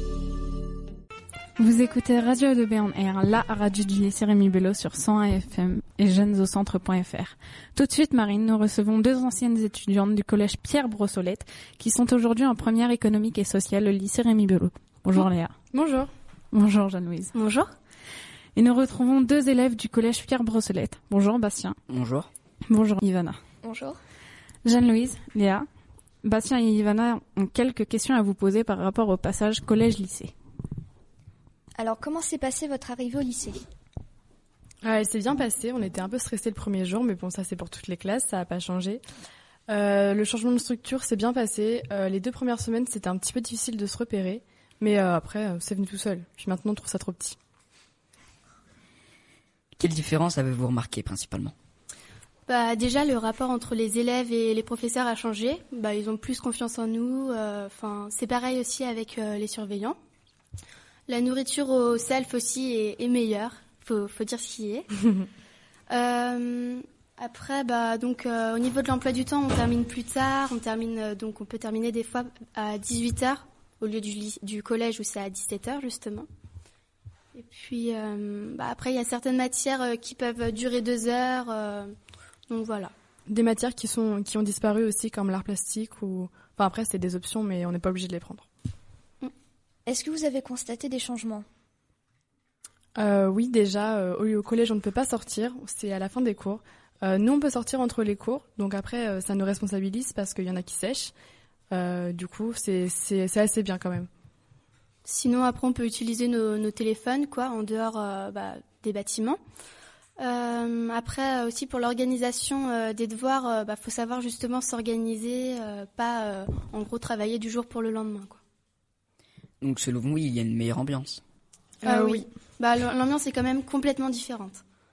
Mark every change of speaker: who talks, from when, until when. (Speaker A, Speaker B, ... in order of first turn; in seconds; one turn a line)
Speaker A: 1.6-15.5
Speaker B: 15.7-16.1
Speaker A: 16.5-17.3
Speaker C: 17.3-17.7
Speaker A: 18.6-21.8
Speaker D: 21.9-22.3
Speaker A: 22.7-23.4
Speaker E: 23.6-24.0
Speaker A: 24.6-25.6
Speaker A: 26.2-30.3
Speaker E: 31.8-33.6
Speaker B: 34.8-39.0
Speaker B: 39.7-47.4
Speaker D: 49.8-51.5
Speaker C: 52.5-60.0
Speaker C: 61.1-64.9
Speaker C: 65.9-76.3
Speaker C: 77.3-81.9
Speaker C: 82.5-82.9
Speaker B: 83.3-88.5
Speaker E: 89.9-91.4
Speaker B: 93.0-101.1
Speaker B: 101.7-104.1
Speaker C: 105.0-109.4
Speaker C: 110.2-118.4
Speaker D: 119.6-121.2
Speaker B: 121.8-122.2
Speaker C: 121.8-124.6